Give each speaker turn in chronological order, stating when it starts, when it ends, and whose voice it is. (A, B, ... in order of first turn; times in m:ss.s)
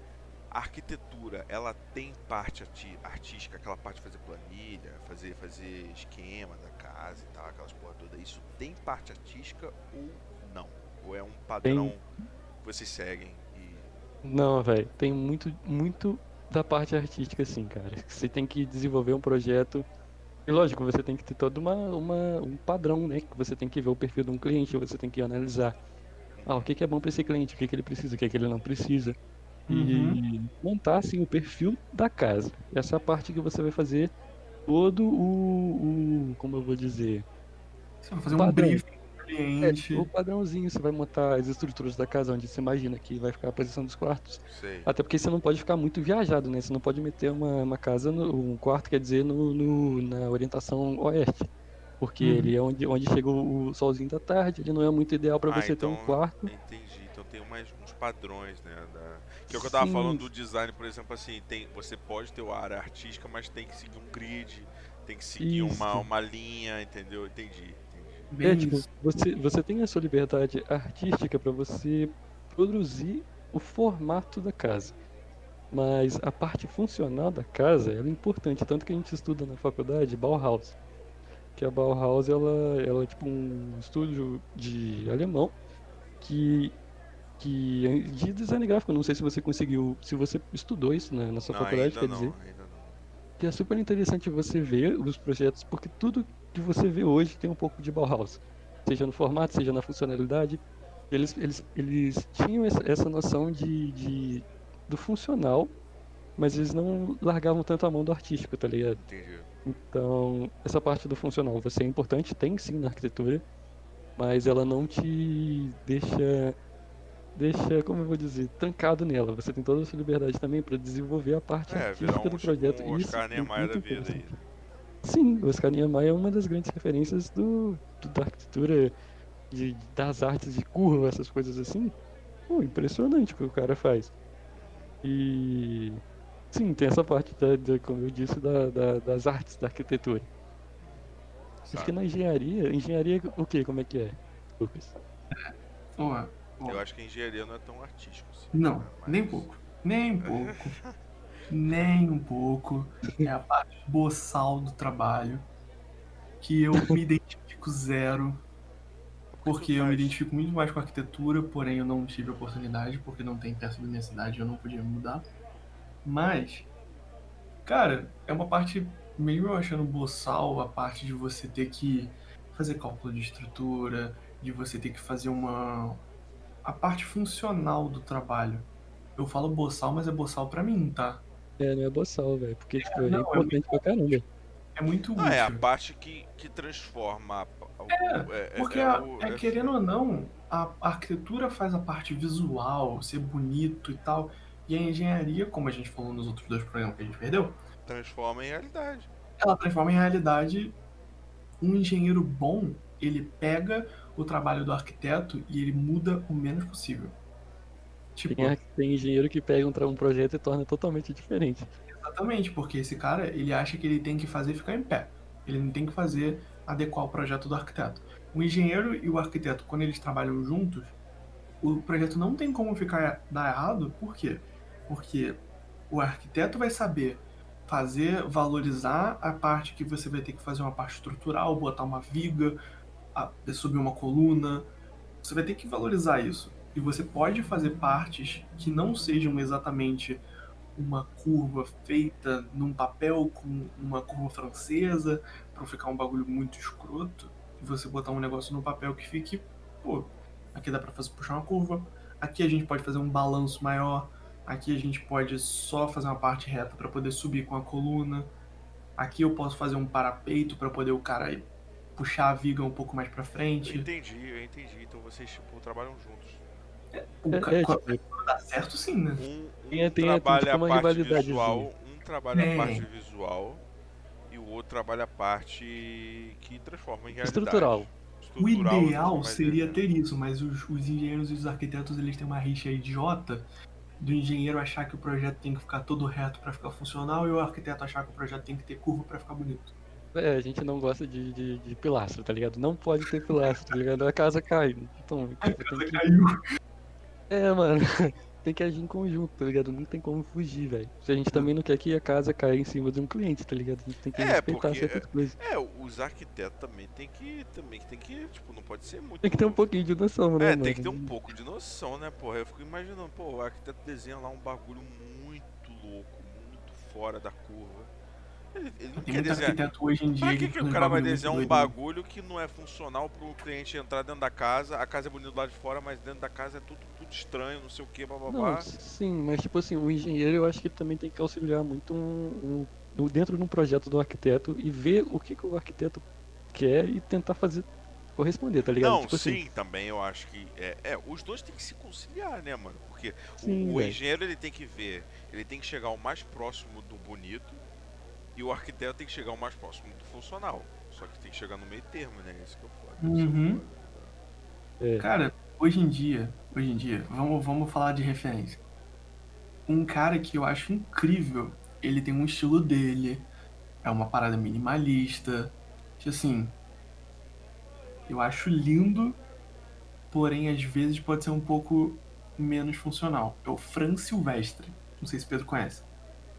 0:00.5-0:12.0 A
0:11.6-0:11.9 B
0:12.6-0:13.9 A
0:14.2-0:19.8 B
0:20.5-0:25.8 B
0:26.3-0:26.7 A
0:26.5-0:29.2 B
0:29.7-0:30.2 C
0:29.7-0:34.1 B
0:34.7-0:37.2 B
0:38.0-0:40.1 C
0:38.3-0:38.8 B
0:39.6-0:51.5 B
0:44.5-0:44.9 A
0:52.0-0:56.5 B
0:52.2-0:52.5 C
0:55.5-1:08.3 A
0:59.5-1:00.3 B
1:05.4-1:06.1 B
1:08.3-1:08.9 C
1:08.4-1:14.9 B
1:15.7-1:20.8 B
1:21.6-1:25.5 B
1:26.2-1:26.8 B
1:27.4-1:32.3 B
1:31.5-1:33.1 A
1:33.4-1:40.6 B
1:41.1-1:45.7 B
1:46.4-1:49.0 B
1:49.0-1:49.5 A
1:49.6-1:53.4 B
1:54.2-1:56.6 B
1:57.3-2:04.3 B
2:01.7-2:04.4 A
2:05.0-2:08.9 B
2:09.5-2:11.9 B
2:12.5-2:14.1 B
2:14.5-2:15.0 A
2:15.0-2:16.0 B
2:16.5-2:20.3 B
2:20.8-2:21.1 A
2:21.6-2:22.0 A
2:21.7-2:24.9 B
2:25.3-2:26.8 C
2:26.6-2:29.5 A
2:28.5-2:30.8 C
2:30.2-2:31.0 A
2:31.5-2:35.4 C
2:36.4-2:38.4 C
2:39.3-2:40.2 A
2:39.4-2:45.2 C
2:46.0-2:46.7 C
2:47.6-2:56.0 C
2:56.6-3:01.2 C
3:01.6-3:04.2 B
3:02.8-3:04.2 C
3:04.7-3:05.6 C
3:05.2-3:09.7 A
3:07.9-3:17.6 C
3:17.8-3:19.1 A
3:19.4-3:20.8 C
3:21.6-3:27.2 C
3:28.2-3:28.6 C
3:28.3-3:31.7 B
3:31.9-3:41.0 C
3:41.6-3:52.6 C
3:53.1-3:54.7 C
3:55.2-4:00.2 C
4:00.8-4:18.3 C
4:19.0-4:23.9 C
4:23.6-4:26.4 A
4:26.9-4:29.2 C
4:27.3-4:28.0 B
4:29.2-4:33.6 A
4:29.7-4:31.7 B
4:32.3-4:32.9 C
4:34.3-4:39.8 A
4:37.1-4:37.9 B
4:38.4-4:43.5 C
4:44.0-4:49.7 C
4:50.1-4:56.1 B
4:53.3-4:53.7 C
4:55.4-4:56.4 C
4:57.3-5:05.4 B
5:04.1-5:09.7 A
5:09.2-5:11.1 B
5:10.4-5:17.9 A
5:18.5-5:19.6 A
5:19.0-5:21.7 C
5:20.2-5:28.7 A
5:28.3-5:39.4 B
5:38.8-5:47.6 A
5:43.4-5:44.0 B
5:48.3-5:54.2 A
5:53.0-5:53.6 C
5:54.8-5:55.1 B
5:55.0-5:58.6 C
5:59.7-6:03.3 C
6:03.8-6:06.6 C
6:08.1-6:09.2 C
6:10.1-6:15.8 C